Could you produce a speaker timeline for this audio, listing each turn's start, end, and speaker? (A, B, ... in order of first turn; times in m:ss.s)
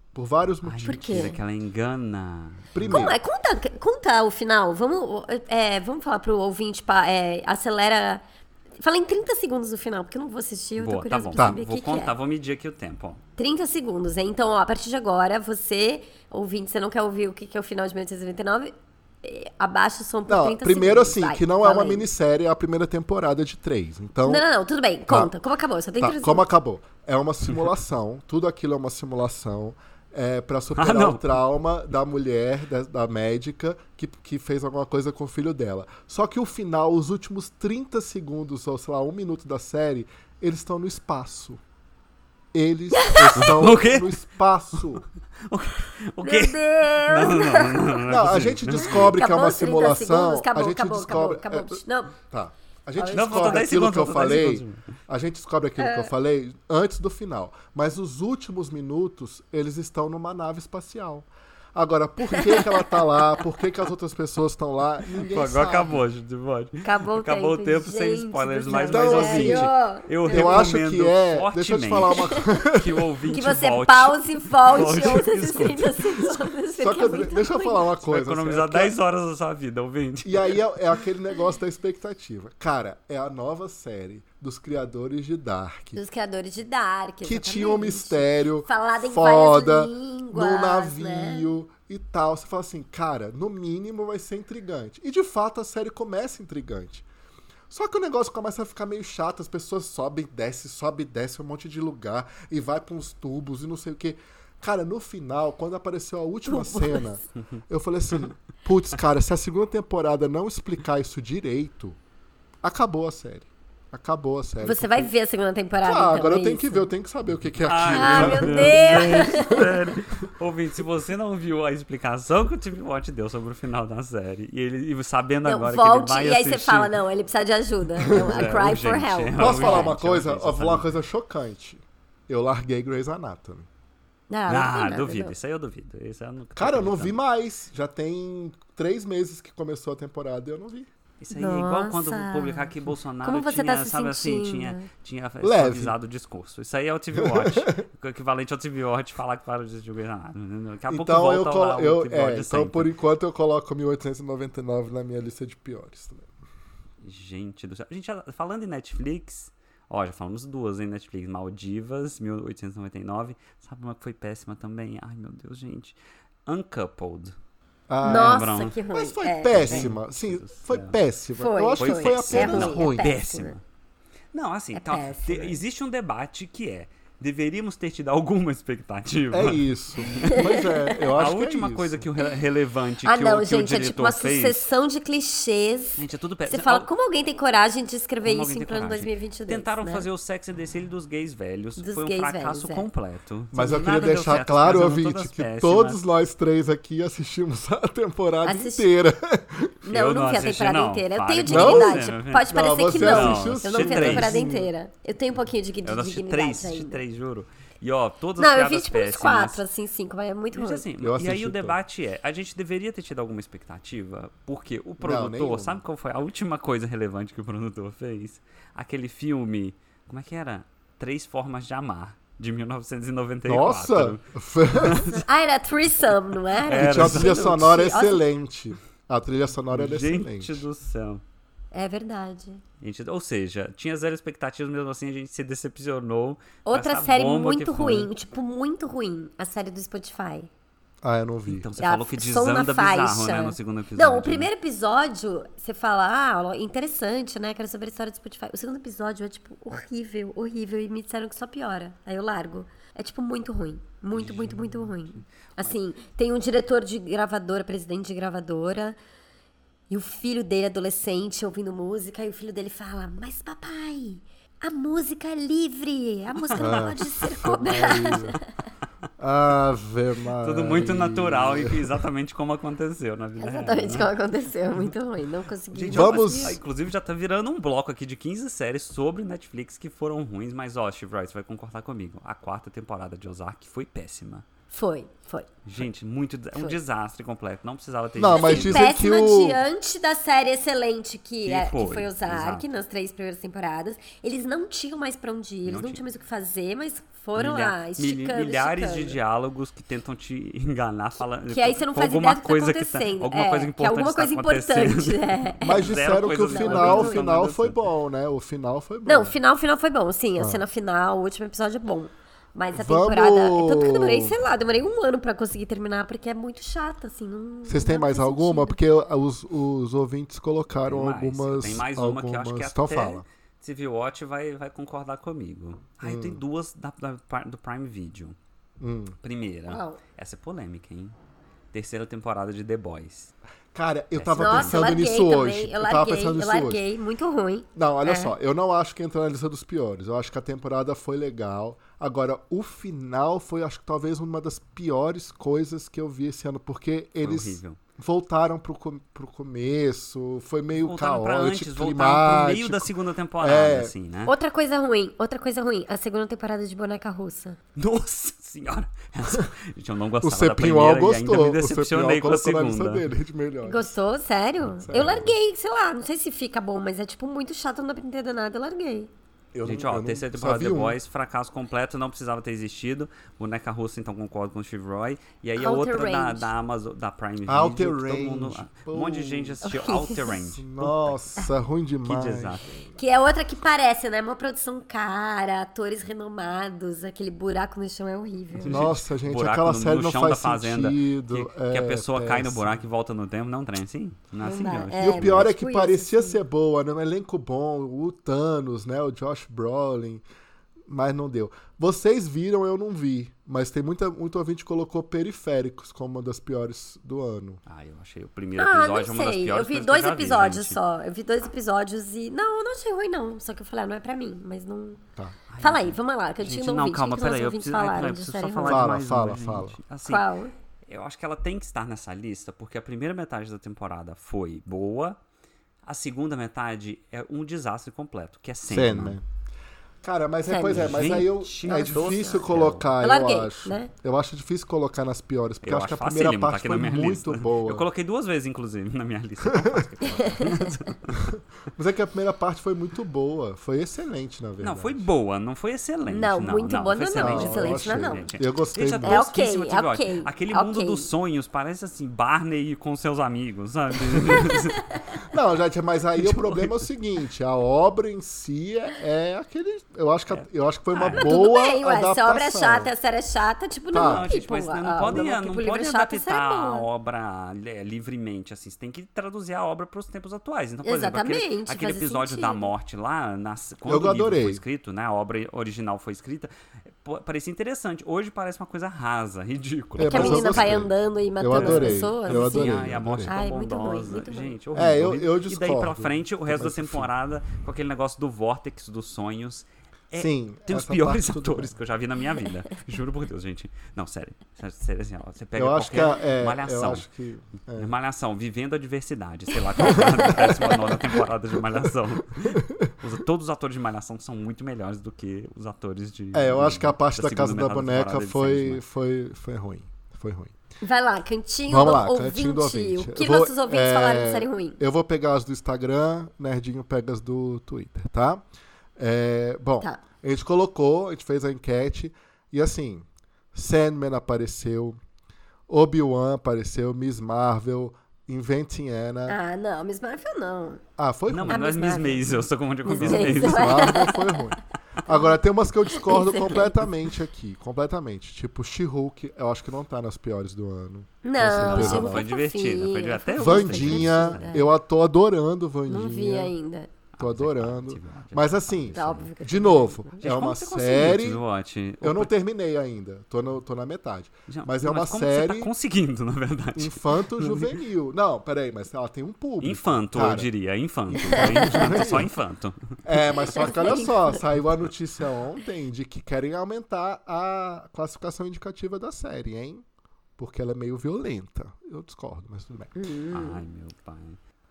0:00.1-0:01.4 A
0:00.6-0:03.0 B
0:00.8-0:01.4 C
0:02.7-0:03.2 A
0:02.9-0:08.2 C
0:08.8-0:12.1 C
0:10.8-0:13.2 B
0:13.4-0:22.1 C
0:20.3-0:24.4 A
0:24.2-0:26.4 C
0:25.1-0:25.3 A
0:26.0-0:41.6 A
0:30.8-0:31.3 B
0:42.5-0:45.0 A
0:42.9-0:43.6 C
0:43.4-0:44.2 B
0:45.5-0:49.2 B
0:46.2-0:48.0 C
0:48.1-1:06.0 A
0:48.8-0:52.1 C
0:53.0-0:53.8 C
0:53.1-0:54.8 B
0:55.8-0:56.1 C
1:02.3-1:03.0 C
1:05.2-1:16.4 B
1:06.8-1:10.7 C
1:08.7-1:09.7 A
1:10.3-1:13.0 A
1:12.2-1:12.4 C
1:13.3-1:17.9 C
1:16.8-1:19.0 A
1:18.0-1:20.6 B
1:20.2-1:26.0 A
1:25.9-1:31.5 C
1:27.2-1:37.0 A
1:37.7-1:52.0 A
1:46.4-1:47.2 C
1:52.6-1:55.1 A
1:54.6-1:56.9 C
1:55.8-1:59.7 A
1:57.6-2:06.9 B
1:57.8-1:59.7 C
2:05.4-2:09.9 C
2:08.0-2:08.7 A
2:08.0-2:10.9 B
2:09.4-2:13.7 A
2:14.3-2:15.3 C
2:14.5-2:17.2 B
2:16.6-2:20.9 A
2:21.2-2:32.9 B
2:21.3-2:22.7 C
2:23.2-2:24.9 C
2:25.4-2:25.9 A
2:27.1-2:27.8 A
2:30.9-2:36.3 A
2:37.0-2:47.3 B
2:47.9-2:53.1 A
2:48.0-2:48.8 B
2:48.0-2:49.9 C
2:49.5-2:51.0 B
2:51.4-2:53.6 C
2:51.8-2:53.6 B
2:54.3-3:00.6 B
2:54.7-2:55.6 C
2:59.3-3:02.0 A
3:00.2-3:01.0 C
3:01.1-3:04.6 B
3:03.0-3:10.1 C
3:06.0-3:06.9 B
3:08.2-3:16.0 B
3:11.8-3:12.8 C
3:13.5-3:19.8 A
3:18.4-3:18.9 C
3:19.8-3:27.0 C
3:19.9-3:24.4 B
3:21.4-3:24.7 A
3:25.8-3:29.6 B
3:28.4-3:30.8 C
3:30.5-3:44.2 B
3:31.0-3:31.8 A
3:35.0-3:35.8 A
3:43.4-3:45.0 A
3:44.7-3:45.2 B
3:44.9-3:48.2 C
3:46.7-3:47.5 B
3:46.7-3:50.6 A
3:49.7-3:51.2 B
3:51.7-3:52.6 C
3:52.8-3:58.1 B
3:56.6-4:00.5 C
4:01.0-4:01.7 A
4:01.5-4:04.5 B
4:01.8-4:19.0 C
4:14.1-4:15.7 B
4:19.9-4:28.4 C
4:26.4-4:27.0 B
4:26.6-4:28.4 A
4:29.2-4:32.0 A
4:30.4-4:34.1 B
4:33.4-4:36.6 C
4:35.7-4:44.4 B
4:35.9-4:36.6 A
4:44.7-4:45.5 C
4:45.6-4:48.9 B
4:48.2-4:49.6 A
4:48.3-4:59.2 C
4:51.4-4:52.6 B
4:55.6-4:56.0 B
4:57.4-5:07.8 B
5:01.5-5:07.3 C
5:05.6-5:09.4 A
5:09.0-5:18.8 C
5:10.4-5:10.6 A
5:12.7-5:14.4 A
5:17.7-5:23.2 A
5:20.8-5:28.4 B
5:26.0-5:26.4 A
5:28.8-5:29.2 A
5:29.2-5:31.1 B
5:29.7-5:30.0 C
5:31.7-5:33.3 B
5:33.7-5:36.8 A
5:34.1-5:35.0 B
5:34.4-5:38.3 C
5:37.8-5:53.9 A
5:47.2-5:47.8 B
5:50.8-5:54.3 B
5:54.2-5:57.6 C
5:57.8-6:03.0 B
6:00.2-6:03.9 A
6:03.6-6:09.1 C
6:04.8-6:05.3 A
6:09.5-6:11.0 A
6:09.6-6:21.3 B
6:15.6-6:16.5 C
6:17.5-6:19.6 A
6:19.6-6:20.3 C
6:20.4-6:22.8 A
6:22.0-6:22.8 B
6:23.0-6:28.8 C
6:28.6-6:35.5 B
6:28.6-6:32.7 A
6:34.4-6:36.4 C
6:35.0-6:40.2 A
6:40.9-6:47.6 A
6:47.7-6:50.8 B
6:48.6-6:55.0 C
6:55.5-7:00.2 B
6:55.6-6:58.9 C
6:58.6-6:59.8 A
7:00.0-7:00.5 C
7:00.8-7:05.2 B
7:05.8-7:09.2 B
7:08.7-7:09.2 A
7:10.0-7:17.8 A
7:10.4-7:11.0 C
7:10.7-7:12.9 B
7:11.7-7:12.4 C
7:13.0-7:13.9 C
7:15.6-7:21.3 B
7:19.4-7:19.9 A
7:20.0-7:20.9 C
7:21.1-7:25.0 A
7:24.6-7:34.9 B
7:26.1-7:28.3 C
7:27.2-7:29.2 A
7:29.0-7:31.1 C
7:34.3-7:35.0 C
7:35.3-7:42.9 A
7:36.2-7:36.8 B
7:40.3-7:41.3 B
7:41.1-7:46.9 C
7:43.9-7:44.3 A
7:44.0-8:00.7 B
7:50.8-7:52.7 C
7:53.9-7:54.6 A
8:00.0-8:03.4 A
8:00.1-8:04.5 C
8:01.5-8:17.0 B
8:04.7-8:07.1 A
8:10.1-8:11.8 A
8:15.5-8:17.9 A
8:17.7-8:28.8 B
8:19.8-8:20.9 C
8:19.8-8:20.8 A
8:22.4-8:22.9 A
8:26.3-8:30.5 A
8:30.8-8:34.8 C
8:31.7-8:38.4 A
8:39.0-8:45.0 A
8:45.7-8:49.4 A
8:49.3-8:50.8 C
8:51.0-8:51.7 A
8:51.3-8:54.0 B
8:51.5-8:54.4 C
8:53.0-9:02.2 A
8:55.0-8:55.3 C
8:55.9-8:56.8 C
9:01.2-9:04.7 C
9:01.6-9:04.5 B
9:03.4-9:06.5 A
9:05.9-9:06.9 C
9:07.2-9:09.4 B
9:07.2-9:11.4 A
9:08.9-9:10.2 C
9:10.2-9:12.3 B
9:12.0-9:15.7 A
9:14.5-9:17.8 B
9:16.8-9:20.5 A
9:19.6-9:23.0 B
9:21.1-9:22.3 A
9:21.2-9:22.1 C
9:23.0-9:29.8 A
9:23.5-9:24.4 C
9:30.4-9:32.9 A
9:33.0-9:33.6 C
9:33.3-9:34.4 B